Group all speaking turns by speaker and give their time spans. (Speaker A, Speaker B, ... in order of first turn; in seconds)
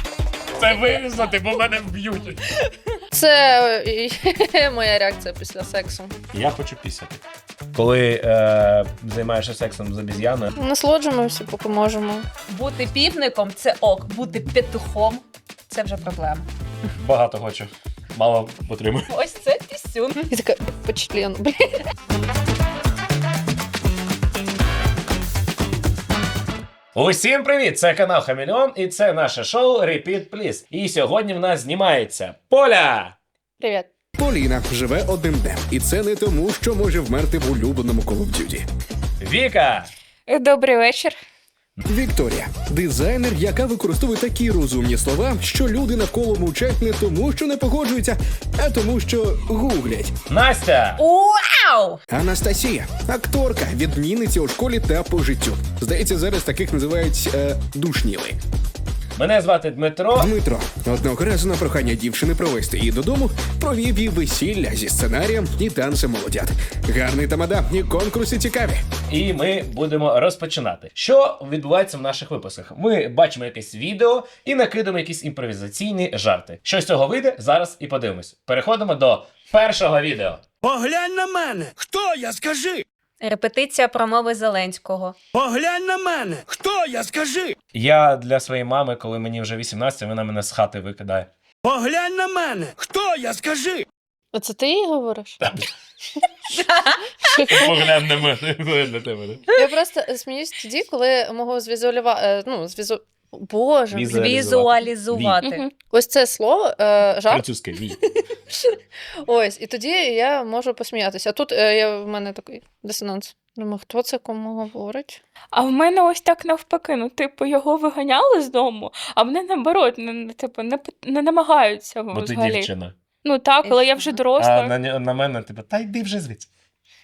Speaker A: 0.6-2.6, 6.3-10.5, 17.0-19.1, 26.9-33.1, 39.2-39.9, 50.3-51.0, 59.1-60.3, 69.1-80.4, 87.7-91.3, 95.4-95.7, 97.5-99.5, 103.9-105.4, 107.3-108.0, 122.1-123.0, 124.3-126.5
Speaker B: 3.1-6.1, 10.6-12.2, 20.3-21.8, 33.6-33.9, 94.3-95.4, 97.2-97.9, 99.5-104.3, 105.9-115.2
Speaker C: 12.5-16.5, 19.1-20.2, 51.0-52.0, 83.2-85.2, 96.6-97.0, 104.1-105.6, 123.6-124.2
Speaker D: 34.2-38.6, 41.9-50.2, 52.1-58.4, 60.1-68.8
Speaker E: 40.3-41.2, 105.4-105.7, 115.5-122.7, 123.2-124.7
Speaker F: 80.6-82.8, 85.3-87.5, 91.6-93.8